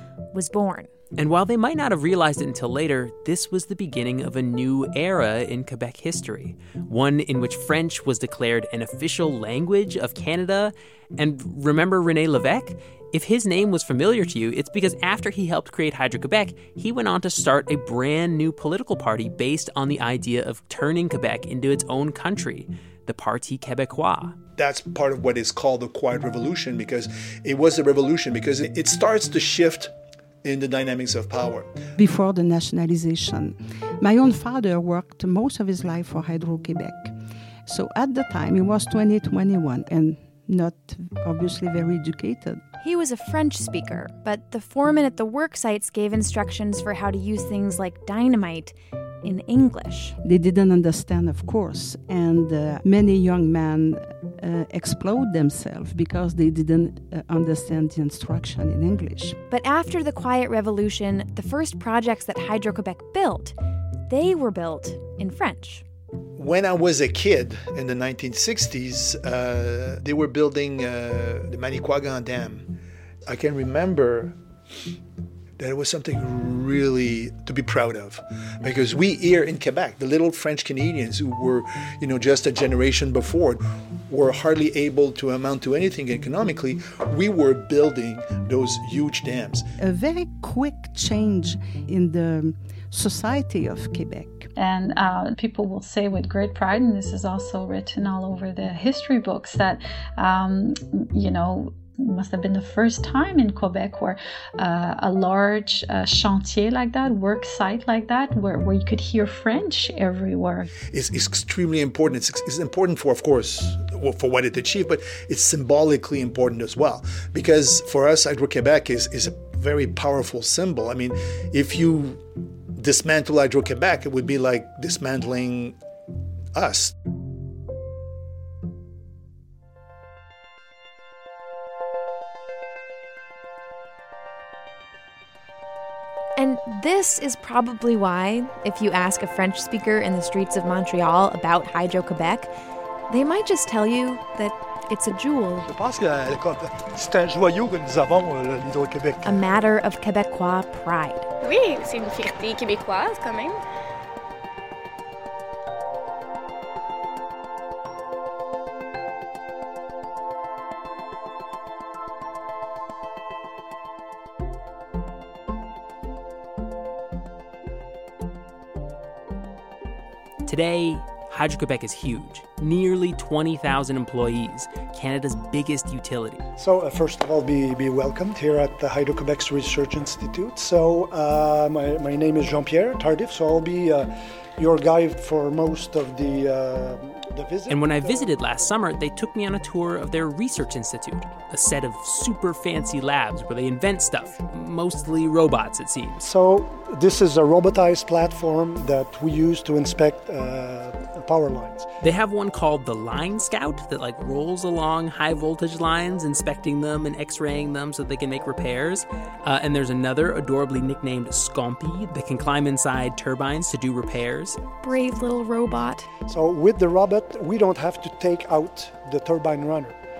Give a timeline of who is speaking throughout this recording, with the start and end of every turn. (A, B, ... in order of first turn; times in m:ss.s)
0:00.3-0:00.9 A
0:01.2-0:24.4 B
0:24.6-0:31.8 C
0:32.0-0:37.1 D
0:37.6-0:42.6 D
0:42.8-0:50.2 A
0:50.2-0:59.4 D
0:59.5-1:03.5 A
1:04.1-1:05.8 A
1:06.4-1:12.7 C
1:13.3-1:14.4 C
1:15.6-1:29.6 C
1:29.8-1:34.5 D
1:34.6-1:50.7 E
1:50.8-2:02.2 C
2:02.7-2:05.8 C
2:06.5-2:06.9 C
2:16.4-2:22.5 A
2:23.1-2:25.7 A
2:25.6-2:29.4 F
2:29.2-2:31.2 A
2:31.4-2:33.6 G
2:50.4-2:56.4 B
2:56.6-3:08.3 F
3:07.7-3:16.2 B
3:16.2-3:21.9 F
3:22.0-3:34.6 B
3:34.8-3:36.1 A
3:36.2-3:40.0 F